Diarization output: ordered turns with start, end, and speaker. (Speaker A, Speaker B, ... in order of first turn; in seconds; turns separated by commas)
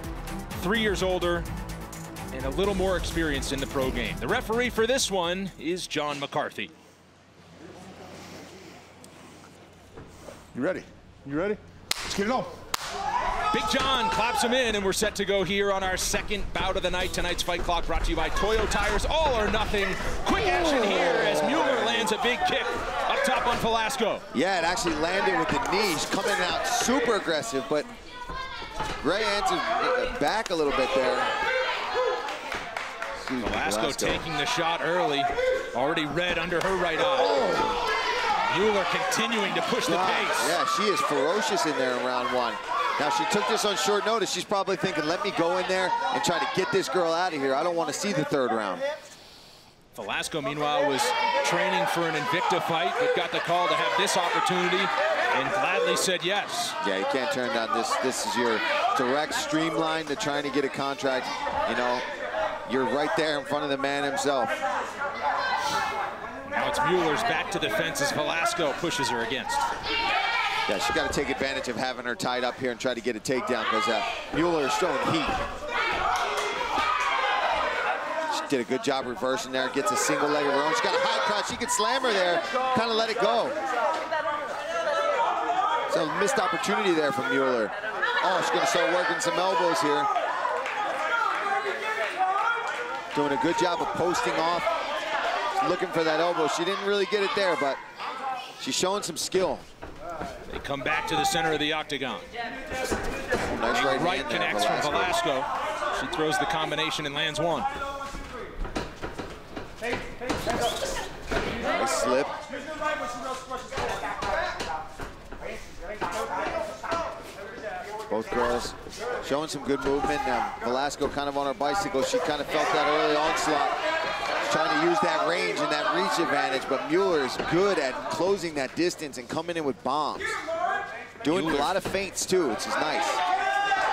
Speaker A: 0.5-1.5, Speaker A: 2.3-6.7, Speaker B: 10.5-12.5, Speaker A: 13.5-24.3, Speaker C: 20.7-22.1, Speaker C: 24.3-27.9, Speaker C: 29.0-31.3, Speaker C: 33.2-34.2, Speaker A: 33.4-37.4, Speaker C: 37.1-37.8, Speaker A: 38.5-40.6, Speaker C: 39.9-48.9, Speaker A: 49.9-56.8, Speaker C: 56.8-62.0, Speaker C: 62.7-64.5, Speaker A: 66.5-69.7, Speaker C: 70.7-75.4, Speaker C: 78.3-83.6, Speaker C: 85.9-90.1, Speaker C: 93.1-94.7, Speaker C: 95.6-97.8, Speaker C: 98.6-99.7, Speaker A: 100.5-102.3, Speaker C: 103.5-105.2, Speaker A: 103.7-107.7, Speaker C: 111.7-112.3, Speaker C: 118.1-123.8, Speaker C: 124.4-130.4, Speaker C: 131.2-133.2, Speaker A: 131.3-131.8